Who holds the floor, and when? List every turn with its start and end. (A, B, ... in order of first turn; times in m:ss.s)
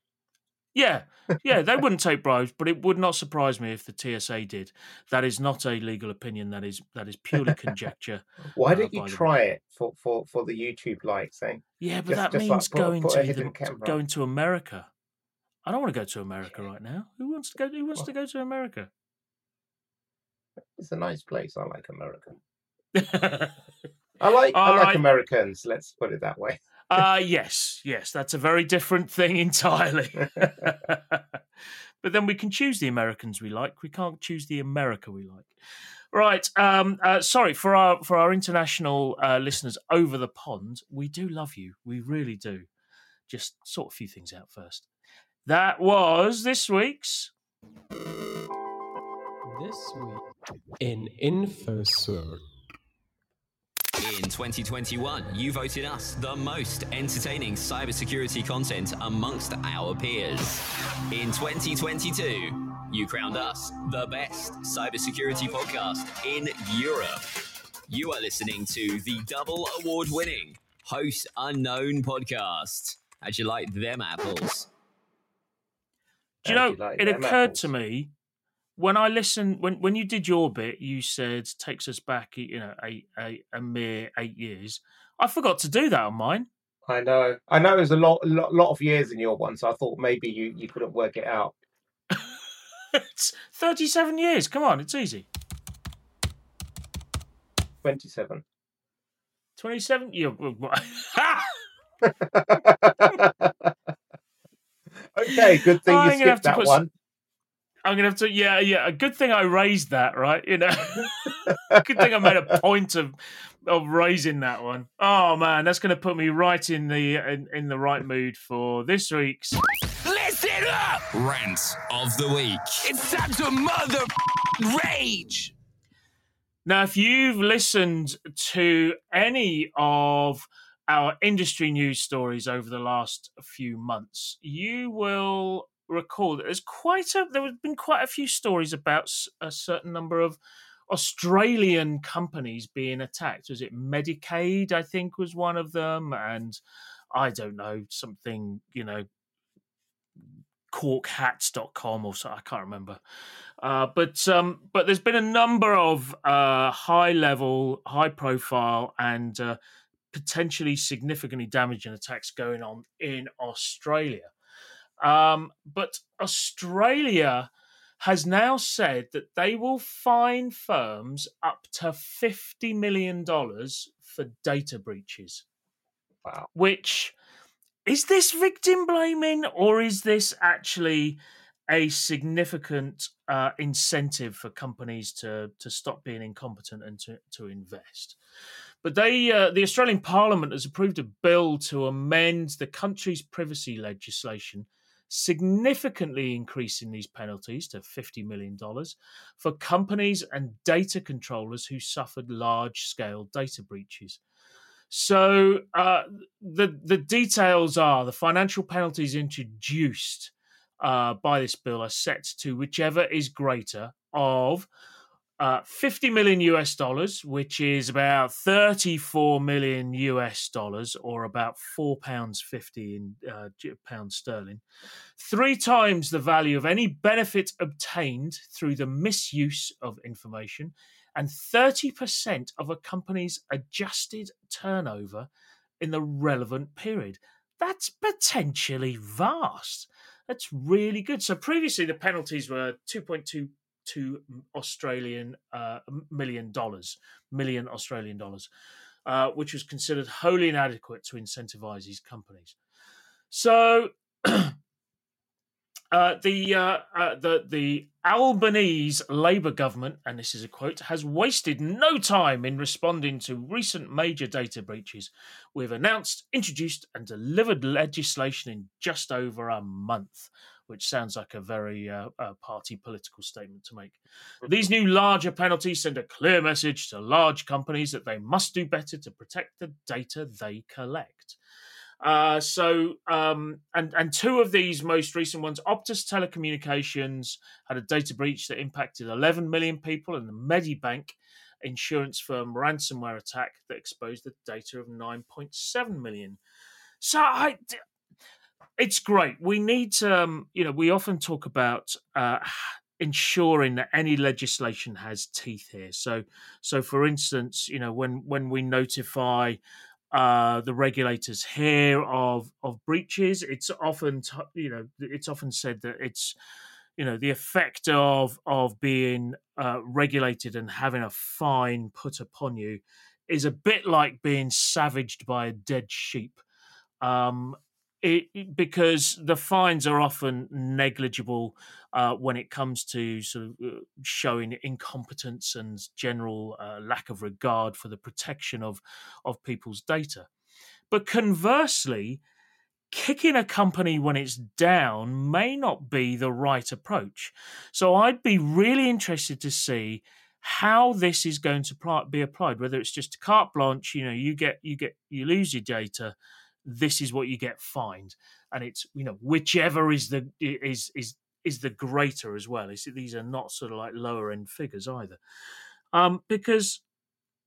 0:00.7-0:09.3 A
0:08.6-0:14.0 B
0:11.8-0:14.9 A
0:15.6-0:18.9 A
0:20.8-0:22.4 B
0:22.9-0:23.6 A
0:24.2-0:27.0 B
0:24.5-0:25.0 A
0:26.9-0:31.3 A
0:30.4-0:30.6 B
0:32.0-0:35.5 A
0:36.1-0:42.7 A
0:43.3-0:44.9 A
0:45.4-0:47.3 A
0:49.5-0:50.2 C
0:50.8-0:52.4 C
0:54.0-1:07.2 D
1:07.9-1:14.7 D
1:16.4-1:17.7 B
1:16.4-1:18.1 A
1:18.8-1:26.5 A
1:26.9-1:31.5 B
1:32.1-1:32.4 A
1:32.9-1:35.3 A
1:37.8-1:38.4 B
1:39.6-1:41.5 A
1:42.0-1:43.7 B
1:45.1-1:46.9 B
1:45.3-1:46.8 A
1:47.8-1:53.1 A
1:51.5-1:52.3 B
1:53.6-1:59.6 A
2:00.0-2:01.0 E
2:01.1-2:02.8 D
2:02.8-2:05.5 E
2:06.6-2:20.4 A
2:20.9-2:26.6 A
2:27.1-2:29.0 A
2:30.7-2:33.0 A
2:33.6-2:39.6 A
2:40.1-2:44.3 A
2:45.0-2:55.4 A
2:56.5-2:57.1 A
2:57.8-3:08.2 A
3:08.8-3:24.2 A
3:24.9-3:34.7 A
3:35.4-3:44.6 A
3:45.2-3:55.3 A
3:55.8-4:08.5 A
4:09.0-4:12.6 A
4:13.3-4:14.5 A
4:15.9-4:41.4 A
4:42.0-4:56.4 A
4:57.0-4:57.8 A
4:58.8-5:09.6 A
5:10.1-5:16.3 A
5:17.0-5:26.4 A
5:27.0-5:40.3 A
5:40.9-5:42.2 A
5:42.9-6:05.2 A
6:05.9-6:06.8 A